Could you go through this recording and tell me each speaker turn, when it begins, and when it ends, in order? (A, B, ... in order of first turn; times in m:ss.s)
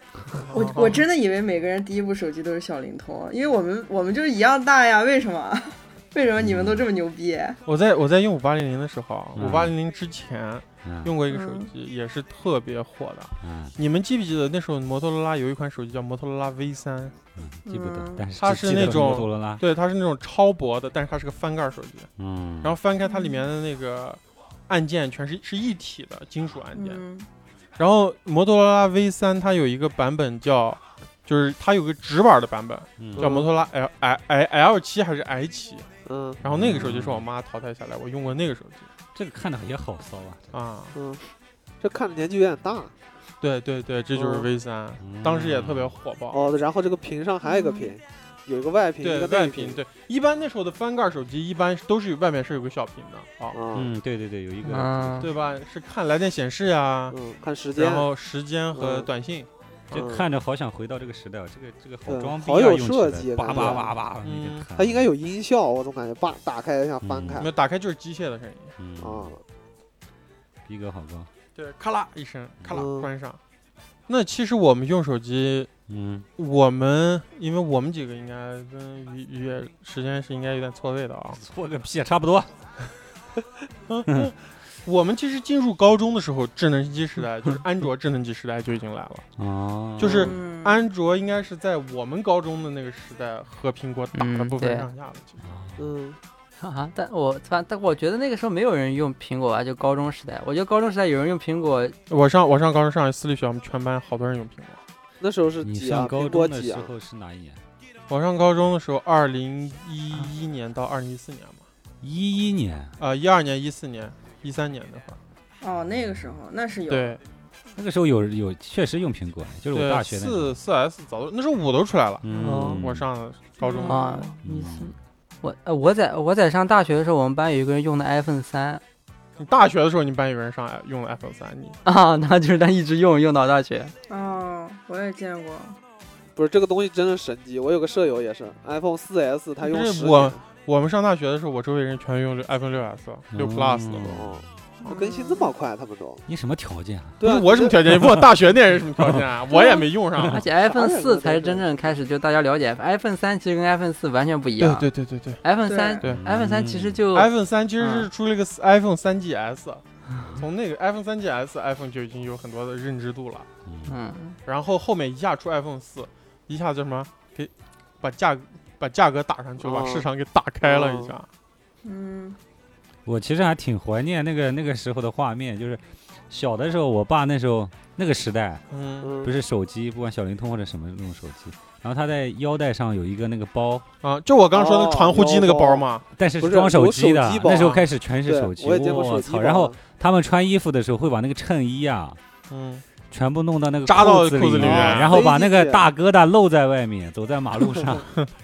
0:00.5-0:01.0 A
0:00.5-0:07.6 B
0:06.4-0:06.9 C
0:07.7-0:17.2 A
0:09.4-0:09.7 C
0:10.8-0:11.2 C
0:11.3-0:11.7 B
0:13.4-0:13.8 C
0:17.4-0:19.6 C
0:17.7-0:18.2 B
0:18.4-0:22.1 A
0:22.2-0:22.8 C
0:22.6-0:27.0 A
0:23.0-0:23.4 B
0:26.8-0:27.3 B
0:27.8-0:35.9 A
0:33.0-0:33.3 C
0:33.2-0:33.5 D
0:36.1-0:36.4 D
0:36.4-0:37.3 C
0:36.4-0:38.9 A
0:39.1-0:40.5 C
0:40.5-0:41.0 A
0:41.0-0:41.2 D
0:41.8-0:42.9 D
0:43.4-0:46.6 A
0:44.1-0:44.5 D
0:45.0-0:46.0 C
0:46.3-0:49.8 D
0:47.4-0:47.9 B
0:49.0-0:53.6 A
0:53.5-0:53.9 D
0:53.8-0:55.3 C
0:54.6-0:55.3 E
0:55.2-0:57.2 A
0:57.1-0:58.1 D
0:57.8-1:00.1 A
0:58.7-0:59.1 D
0:59.9-1:05.1 C
0:59.9-1:00.3 D
1:02.1-1:03.9 D
1:03.5-1:04.7 A
1:04.8-1:07.5 D
1:07.0-1:07.4 C
1:07.4-1:08.7 A
1:08.8-1:09.3 C
1:09.0-1:09.4 D
1:10.7-1:11.3 C
1:11.6-1:13.4 A
1:12.7-1:13.1 D
1:14.1-1:15.7 A
1:15.9-1:16.3 C
1:16.4-1:21.4 A
1:21.3-1:22.5 C
1:23.9-1:29.3 A
1:29.4-1:30.3 C
1:30.0-1:35.4 A
1:30.0-1:30.8 B
1:34.2-1:34.9 E
1:35.4-1:35.9 C
1:35.8-1:36.2 D
1:36.6-1:42.0 E
1:42.1-1:44.8 A
1:45.2-1:46.9 D
1:45.6-1:47.6 C
1:48.1-1:51.7 A
1:52.0-1:53.0 C
1:53.0-1:55.2 A
1:55.6-1:57.2 B
1:55.9-1:56.3 C
1:56.9-1:57.2 A
1:57.8-2:00.6 C
1:59.7-2:04.2 A
2:02.2-2:03.1 C
2:02.4-2:02.8 D
2:03.6-2:04.4 B
2:03.8-2:08.8 E
2:04.4-2:05.0 C
2:09.4-2:11.8 A
2:11.8-2:13.9 E
2:14.1-2:15.8 B
2:16.4-2:20.4 D
2:19.6-2:24.2 A
2:23.3-2:24.5 C
2:24.0-2:26.2 D
2:24.8-2:25.5 B
2:26.3-2:27.2 C
2:27.2-2:27.8 D
2:27.2-2:30.4 A
2:29.5-2:29.8 B
2:30.3-2:34.9 E
2:30.6-2:31.9 D
2:34.6-2:35.4 A
2:35.4-2:38.1 E
2:35.6-2:36.0 B
2:36.0-2:37.0 C
2:37.1-2:39.8 A
2:40.4-2:43.5 A
2:43.7-2:43.9 C
2:43.9-2:44.4 E
2:44.5-2:51.3 A
2:49.6-2:50.1 D
2:50.6-2:51.2 D
2:51.8-2:52.4 B
2:53.0-2:58.6 C
2:58.7-2:59.1 A
2:59.0-2:59.3 D
2:59.2-3:03.8 C
3:04.0-3:06.0 A
3:04.5-3:05.9 D
3:06.2-3:12.2 C
3:06.4-3:09.8 D
3:12.5-3:12.8 A
3:13.1-3:18.1 C
3:13.9-3:15.2 A
3:14.6-3:15.9 D